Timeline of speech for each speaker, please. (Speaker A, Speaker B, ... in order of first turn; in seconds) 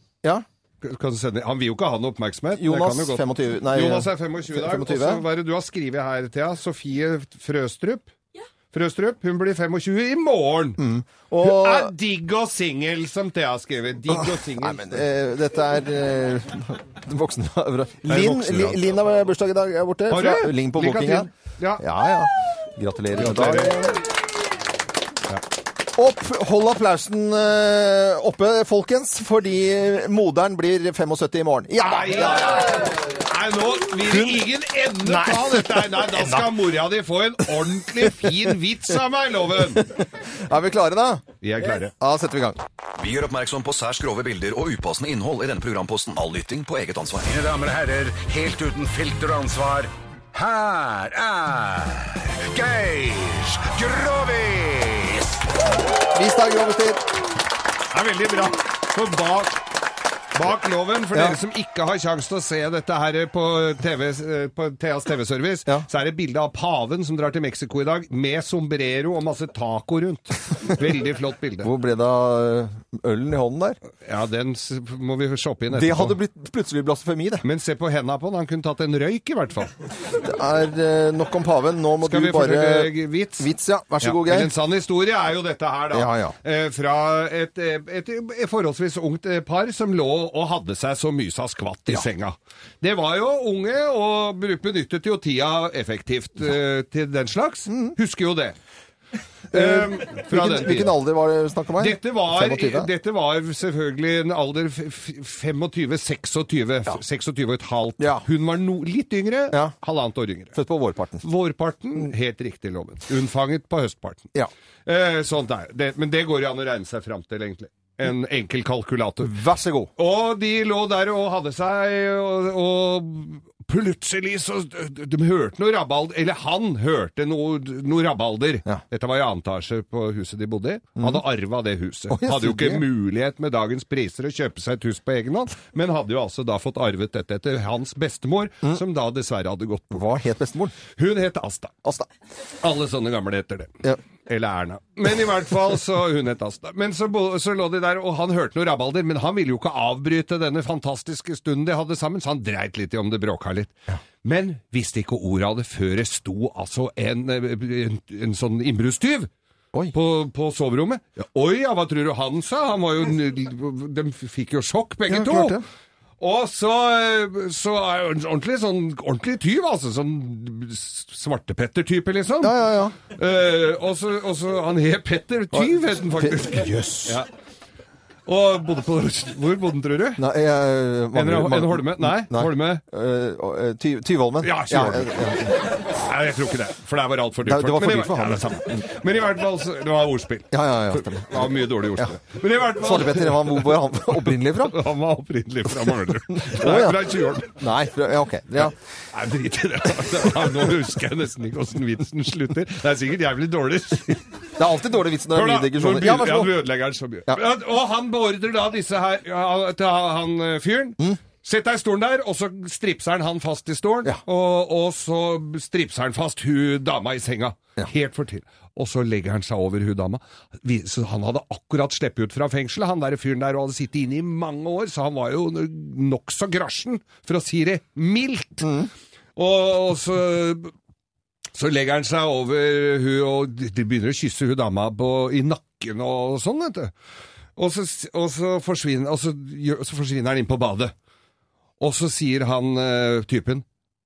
Speaker A: 0.8-8.1, 8.7-10.8, 11.4-15.1, 18.1-18.9, 20.1-21.8, 23.1-23.8, 31.8-39.8, 41.4-41.9, 57.9-59.6, 60.3-71.7, 74.0-76.2, 77.4-79.8, 82.0-98.5, 99.5-101.0, 101.8-110.6, 111.2-114.3, 114.9-119.4, 120.0-140.0, 140.9-141.8, 142.6-159.3, 159.9-165.6, 166.2-177.3, 178.3-180.2, 181.1-182.8, 184.4-197.6, 199.1-204.4, 205.3-228.8, 229.4-230.7, 231.5-236.9, 237.6-240.9, 241.8-243.6
Speaker B: 2.5-5.2, 10.8-11.9, 14.1-24.0, 25.9-32.6, 34.0-36.6, 39.7-41.2, 42.0-42.6, 56.1-57.0, 71.6-73.8, 75.7-77.5, 80.1-84.5, 85.9-86.4, 99.5-102.9, 108.0-108.2, 110.5-111.2, 119.2-119.9, 131.0-131.2, 132.1-132.9, 139.9-140.8, 165.1-165.6, 172.4-173.0, 175.5-177.2, 180.2-185.6, 187.4-188.8, 190.5-192.1, 192.8-194.8, 196.4-197.0, 197.6-198.7, 204.6-206.6
Speaker C: 43.0-47.4
Speaker D: 47.3-55.4